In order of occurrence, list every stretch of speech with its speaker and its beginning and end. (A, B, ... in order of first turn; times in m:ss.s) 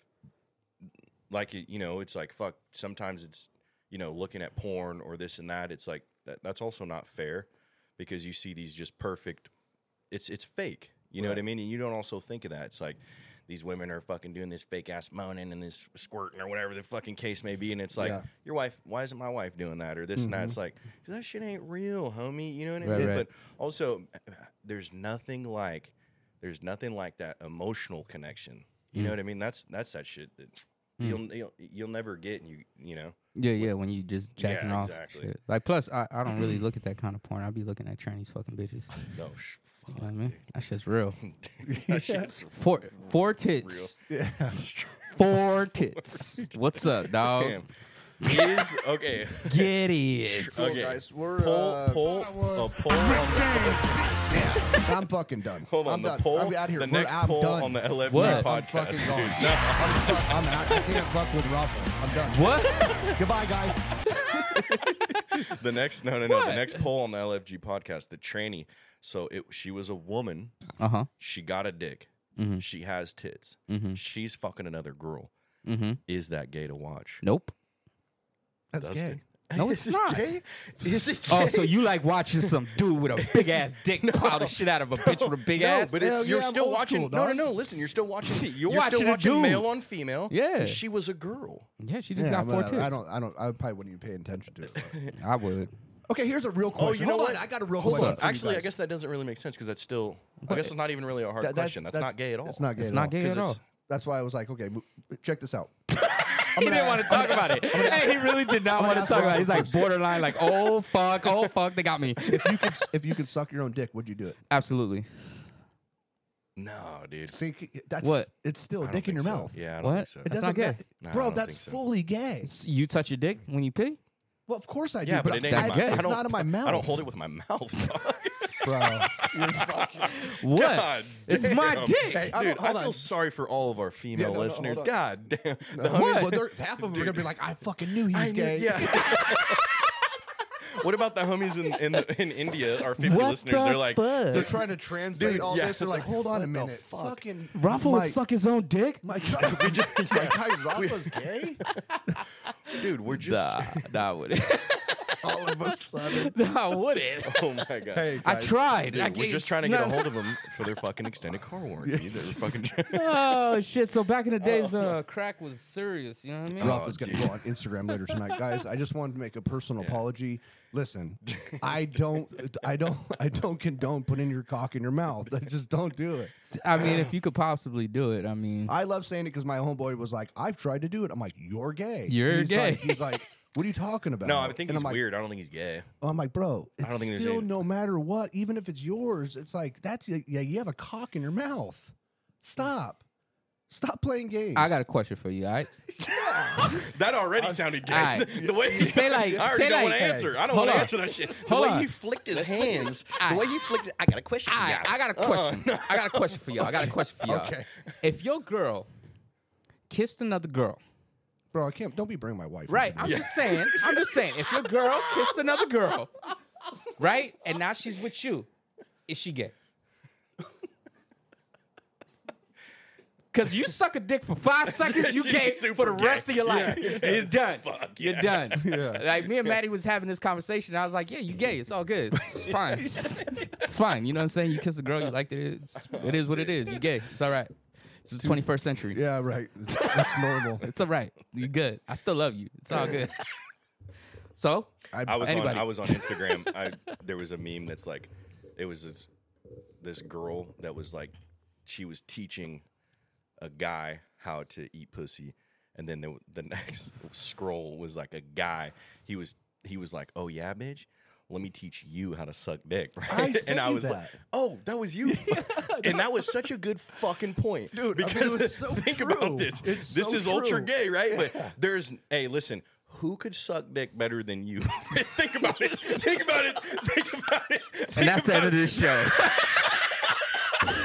0:01.3-0:09.5 A
0:10.1-0:33.7 A
0:11.2-0:11.4 B
0:18.0-0:18.2 B
0:20.2-0:20.6 B
0:22.8-0:23.2 C
0:33.4-0:38.9 C
0:34.4-0:35.3 A
0:39.1-0:40.4 A
0:39.9-0:41.2 C
0:41.2-0:45.4 A
0:41.6-0:42.3 B
0:42.5-0:44.0 C
0:44.1-0:44.6 B
0:45.1-0:47.6 C
0:46.1-0:46.5 A
0:47.0-0:49.7 A
0:48.2-0:48.6 C
0:49.4-0:50.9 C
0:50.2-0:54.0 A
0:50.5-0:52.3 B
0:52.3-0:54.4 C
0:54.3-1:02.5 B
0:55.7-1:01.0 A
0:58.1-0:58.5 C
1:02.3-1:03.2 C
1:03.1-1:03.8 B
1:04.5-1:05.4 B
1:05.3-1:10.6 A
1:06.3-1:06.8 C
1:10.8-1:11.1 C
1:11.2-1:15.3 A
1:12.4-1:12.6 C
1:13.7-1:14.0 C
1:15.6-1:16.0 C
1:16.1-1:17.2 A
1:17.2-1:17.5 C
1:18.7-1:19.2 B
1:18.8-1:21.9 A
1:19.6-1:20.4 C
1:21.3-1:25.9 C
1:23.2-1:31.7 A
1:26.0-1:27.9 B
1:28.2-1:29.7 C
1:30.3-1:30.8 C
1:31.8-1:33.0 C
1:32.1-1:35.0 B
1:34.8-1:35.2 A
1:35.1-1:35.7 C
1:36.1-1:38.7 B
1:36.8-1:43.6 A
1:37.8-1:38.2 C
1:40.4-1:40.7 C
1:41.4-1:43.2 B
1:42.8-1:43.6 C
1:43.9-1:45.8 B
1:46.2-1:52.8 C
1:46.3-1:50.0 B
1:52.2-1:54.4 B
1:54.5-1:55.1 C
1:56.6-1:57.4 A
1:57.3-1:59.6 B
1:58.0-1:58.3 C
1:58.8-2:00.4 A
1:59.8-2:00.8 C
2:00.2-2:02.5 B
2:01.0-2:01.8 A
2:02.4-2:04.0 C
2:04.5-2:07.1 B
2:05.0-2:17.3 A
2:05.4-2:06.1 C
2:08.6-2:10.1 B
2:10.0-2:12.3 C
2:11.3-2:13.1 B
2:14.1-2:14.9 B
2:15.7-2:19.6 B
2:18.0-2:19.8 A
2:20.6-2:27.2 A
2:23.0-2:24.5 C
2:24.3-2:28.2 B
2:27.5-2:29.3 C
2:29.0-2:31.6 B
2:29.3-2:31.8 A
2:32.7-2:37.5 C
2:32.7-2:34.0 A
2:35.2-2:36.3 B
2:37.2-2:38.2 A
2:37.9-2:38.6 B
2:38.2-2:40.2 C
2:38.8-2:43.3 A
2:41.8-2:42.6 B
2:42.9-2:46.8 C
2:44.4-2:44.9 A
2:46.6-2:47.4 A
2:46.6-2:56.3 B
2:49.8-2:50.0 A
2:51.3-2:52.5 A
2:56.5-2:58.8 C
2:58.7-3:05.0 B
3:02.1-3:03.2 C
3:04.2-3:05.9 A
3:06.0-3:13.0 B
3:06.8-3:07.6 A
3:13.7-3:14.8 B
3:14.5-3:15.7 C
3:15.9-3:16.8 B
3:16.6-3:26.9 A
3:17.4-3:20.4 B
3:17.9-3:21.9 C
3:22.4-3:22.9 B
3:23.2-3:23.5 C
3:24.5-3:28.9 C
3:27.2-3:27.7 B
3:29.9-3:30.8 C
3:31.5-3:33.3 B
3:32.7-3:36.1 C
3:33.0-3:34.1 A
3:37.0-3:38.5 C
3:39.1-3:39.5 C
3:43.3-3:57.5 C
3:44.7-3:48.8 A
3:48.6-3:49.0 B
3:52.4-3:53.5 A
3:55.8-3:56.8 A
3:58.0-3:59.0 C
3:58.2-4:00.6 B
4:00.6-4:03.2 C
4:04.4-4:06.5 C
4:04.9-4:05.5 B
4:05.0-4:09.1 A
4:09.8-4:11.1 A
4:11.6-4:12.6 A
4:13.4-4:40.4 A
4:23.1-4:24.2 B
4:25.0-4:26.4 B
4:27.7-4:31.5 B
4:37.9-4:39.7 C